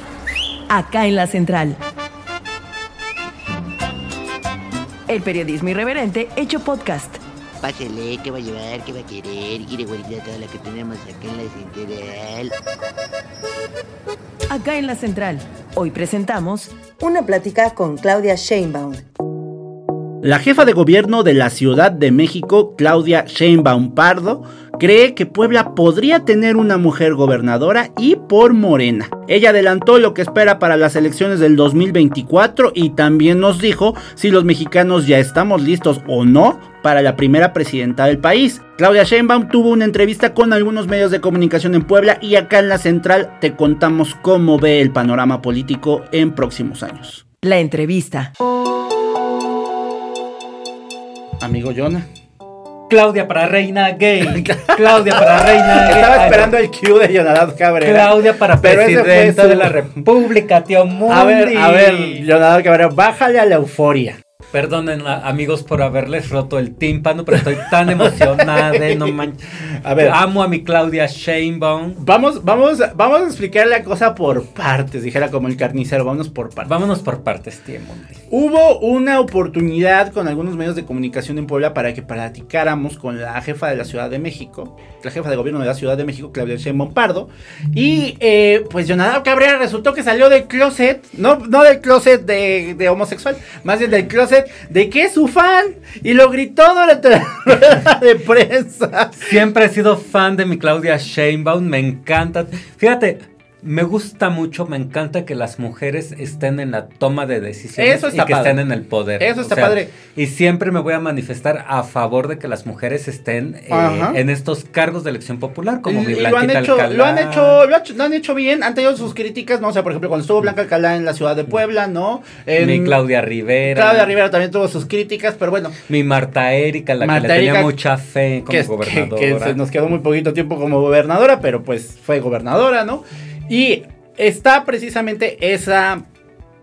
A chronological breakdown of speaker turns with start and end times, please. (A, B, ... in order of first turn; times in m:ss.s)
0:00.7-0:01.8 A
0:05.1-0:07.2 A
0:07.6-0:12.5 B
0:14.5-0:16.8 A
0:16.9-0:19.0 C
0:20.2-0:47.2 D
0:47.4-0:48.3 A
0:51.4-0:52.0 D
0:52.9-0:56.6 E
0:54.2-0:59.8 D
0:57.8-1:02.2 E
1:01.1-1:04.2 D
1:04.5-1:12.0 E
1:07.9-1:09.2 D
1:09.8-1:10.2 D
1:12.0-1:16.7 D
1:16.6-1:18.2 E
1:18.3-1:39.4 D
1:39.2-1:57.6 E
1:47.8-1:48.6 D
1:49.2-1:49.9 D
1:53.7-1:54.2 D
1:55.8-2:03.0 D
2:02.6-2:04.1 E
2:03.6-2:05.8 D
2:05.9-2:09.6 E
2:07.0-2:07.7 D
2:08.5-2:16.0 D